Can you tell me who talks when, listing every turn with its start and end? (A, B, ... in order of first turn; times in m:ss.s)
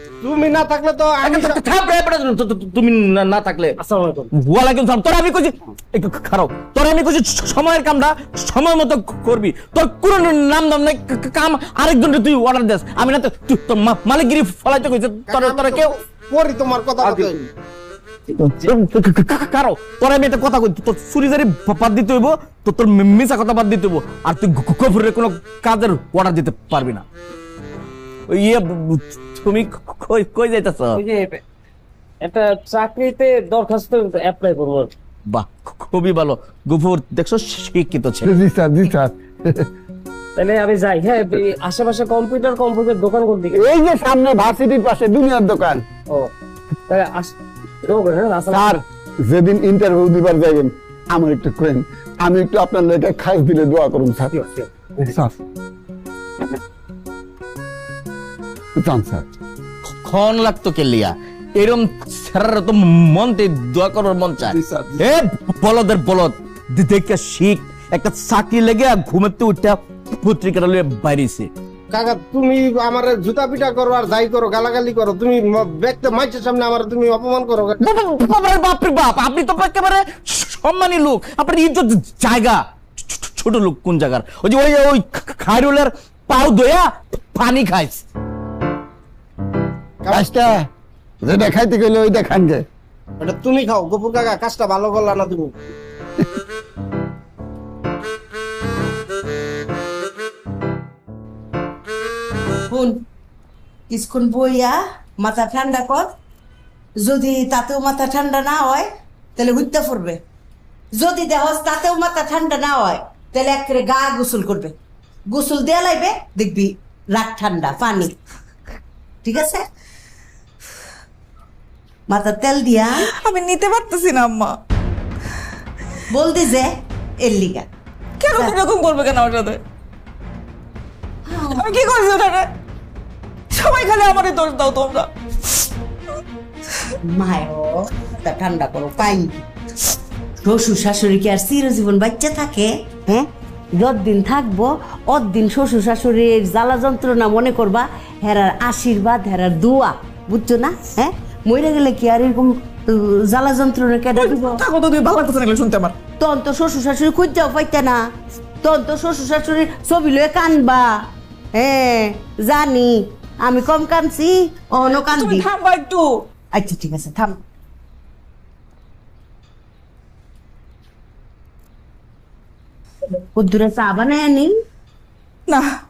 0:00.2-0:01.6 A
0:01.2-0:03.8 B
0:03.8-0:04.3 A
0:04.3-0:15.9 B
0:15.3-0:17.3 A
0:17.0-0:17.4 C
0:18.6-0:27.0 B
0:28.3-0:31.0 B
0:31.0-0:31.4 D
0:32.2-0:34.9 D
0:35.3-0:38.3 B
0:38.2-0:39.6 C
0:40.4-0:43.6 D
0:43.5-0:45.8 C
0:46.9-0:48.7 D
0:48.5-0:54.4 C
0:55.0-0:55.4 C
0:58.8-0:59.2 C
1:00.0-1:11.5 B
1:11.9-1:17.8 A
1:17.8-1:28.0 B
1:30.1-1:30.6 C
1:31.2-1:32.6 C
1:33.2-1:35.5 A
1:42.7-1:43.0 E
1:43.9-1:46.1 E
1:47.0-1:50.2 E
1:51.0-1:54.8 E
1:55.3-1:58.1 E
1:59.2-1:59.7 E
2:02.1-2:03.1 E
2:03.0-2:04.6 F
2:06.1-2:07.7 E
2:08.2-2:09.6 F
2:11.3-2:11.6 E
2:11.4-2:12.5 F
2:13.5-2:15.1 F
2:17.0-2:19.5 E
2:20.4-2:34.6 E
2:34.2-2:36.0 F
2:36.2-2:38.0 E
2:38.6-2:45.5 E
2:45.0-2:46.2 F
2:46.5-2:47.4 E
2:53.2-2:54.6 E